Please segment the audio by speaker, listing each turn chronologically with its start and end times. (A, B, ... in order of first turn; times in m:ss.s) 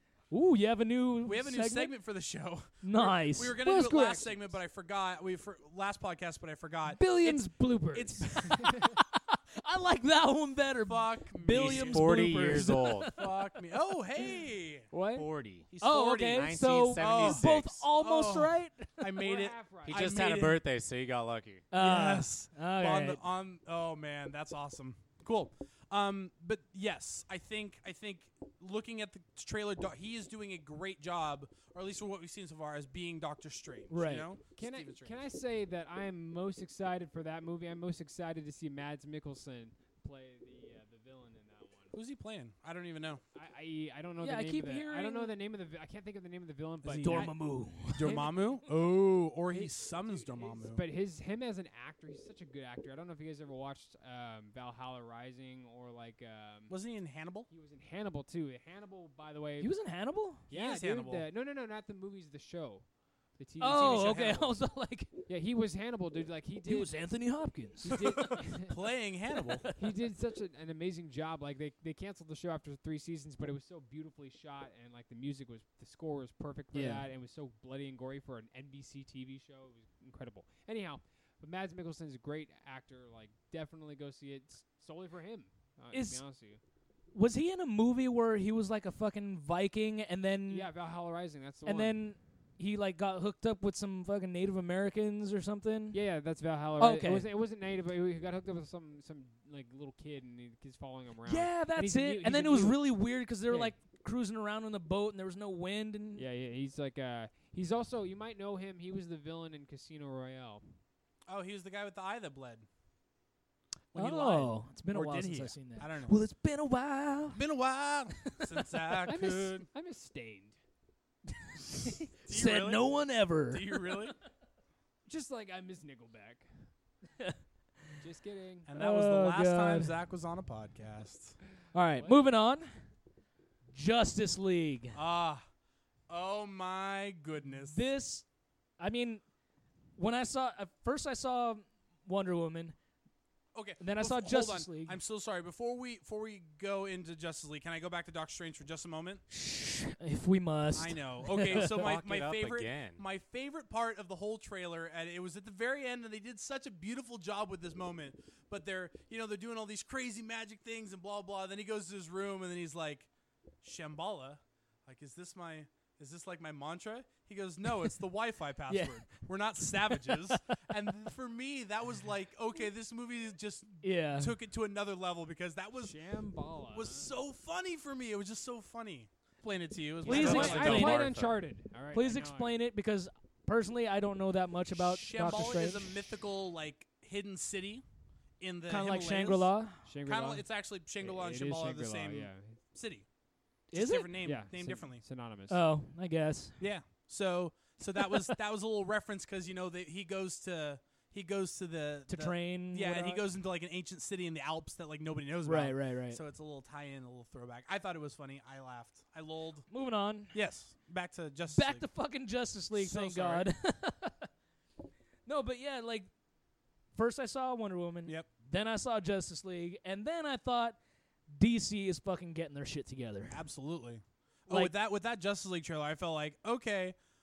0:00.3-0:01.9 A
0:01.2-0:08.8 B
0:02.8-0:04.3 A
0:03.7-0:04.4 C
0:06.9-0:09.0 C
0:08.2-0:13.3 A
0:10.8-0:12.4 B
0:11.5-0:13.1 D
0:13.0-0:14.9 B
0:15.1-0:15.7 D
0:15.7-0:20.6 B
0:15.8-0:19.0 A
0:16.3-0:17.8 D
0:19.2-0:20.2 C
0:19.8-0:21.6 D
0:21.7-0:23.2 A
0:21.8-0:35.2 B
0:33.9-0:34.3 A
0:34.6-0:41.9 C
0:41.9-0:43.2 B
0:43.3-0:48.6 C
0:44.2-0:45.3 A
0:46.8-0:47.3 B
0:47.0-0:48.3 A
0:47.9-0:50.8 B
0:49.5-0:56.8 C
0:56.7-0:57.5 B
0:57.5-0:59.7 C
0:59.6-1:00.4 A
1:00.5-1:02.9 C
1:00.5-1:01.2 B
1:03.4-1:04.6 C
1:03.6-1:05.1 A
1:03.8-1:04.3 B
1:05.3-1:08.7 C
1:06.6-1:08.4 A
1:08.2-1:09.6 B
1:09.5-1:10.0 A
1:09.7-1:26.6 C
1:16.7-1:17.1 A
1:25.9-1:26.2 A
1:27.1-1:30.7 A
1:30.5-1:32.0 C
1:31.6-1:36.0 A
1:35.9-1:43.7 C
1:36.8-1:37.3 A
1:41.2-1:46.2 A
1:46.2-1:50.8 C
1:51.3-1:52.6 B
1:53.9-1:56.2 B
1:53.9-1:57.4 A
1:57.3-1:59.7 B
1:58.2-1:59.1 A
1:59.1-2:00.6 C
2:02.2-2:02.9 B
2:02.3-2:04.0 A
2:03.5-2:04.1 B
2:05.0-2:06.7 C
2:08.0-2:08.7 C
2:08.7-2:11.4 B
2:08.7-2:09.9 A
2:11.7-2:12.7 A
2:11.9-2:12.2 C
2:13.7-2:15.0 A
2:14.9-2:15.4 B
2:16.1-2:17.8 B
2:17.6-2:18.2 A
2:18.8-2:19.2 A
2:20.0-2:22.8 A
2:23.5-2:29.2 B
2:23.8-2:25.0 A
2:29.3-2:31.9 A
2:30.7-2:43.1 B
2:31.4-2:33.0 D
2:43.6-2:56.0 B
2:48.7-2:49.0 A
2:49.7-2:50.6 A
2:53.8-2:54.3 A
2:55.8-2:57.1 C
2:56.7-3:01.2 B
3:00.0-3:01.1 A
3:00.0-3:02.5 C
3:00.1-3:01.4 D
3:01.9-3:06.1 A
3:04.7-3:07.8 B
3:08.4-3:09.5 B
3:08.7-3:09.8 A
3:09.8-3:12.6 C
3:10.0-3:13.0 B
3:13.7-3:15.0 B
3:13.7-3:14.1 A
3:14.2-3:15.6 C
3:15.5-3:16.5 A
3:16.6-3:29.7 B
3:18.0-3:18.3 A
3:22.1-3:23.2 A
3:25.4-3:26.2 A
3:29.7-3:30.4 A
3:30.3-3:31.8 B
3:31.5-3:34.3 A
3:32.7-3:33.5 B
3:35.2-3:36.1 A
3:36.9-3:40.8 A
3:41.3-3:43.4 A
3:43.3-3:46.9 B
3:44.5-3:44.7 A